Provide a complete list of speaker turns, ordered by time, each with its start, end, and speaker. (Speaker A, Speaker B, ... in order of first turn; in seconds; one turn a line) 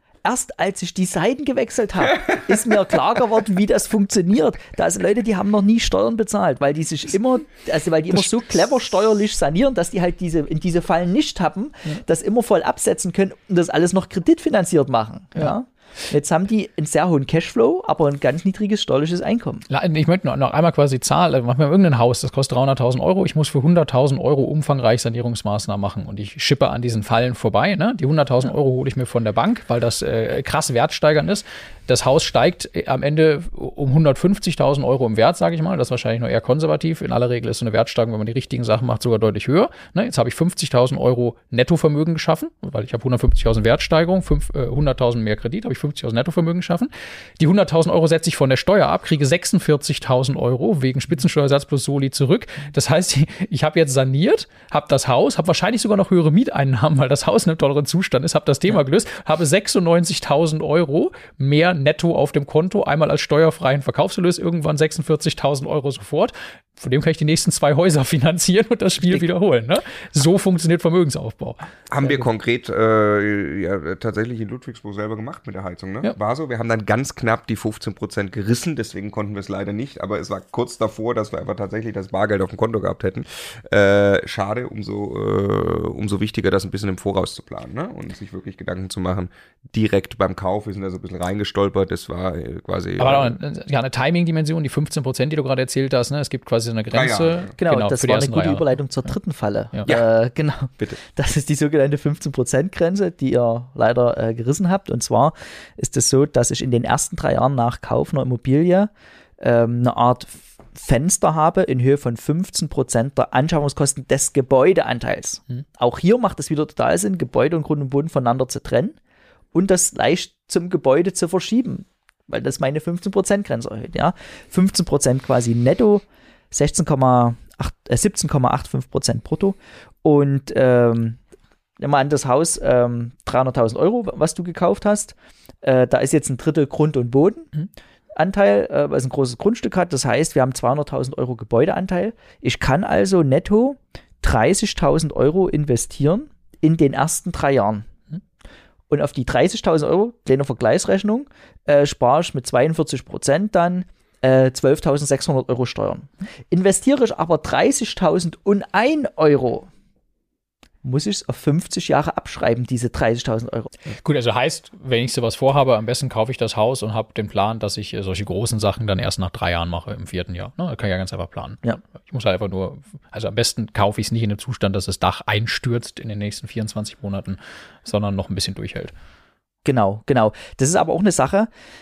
Speaker A: 0.2-19.6
Speaker B: 19.7-72.2
Speaker C: 71.9-93.4
Speaker B: 93.0-98.7
Speaker C: 96.9-97.5
Speaker A: 97.6-119.0
Speaker A: 119.5-131.2
Speaker A: 131.8-137.5
Speaker A: 138.1-147.9
Speaker A: 148.9-159.7
Speaker A: 160.8-163.7
Speaker B: 164.0-178.9
Speaker A: 179.6-181.5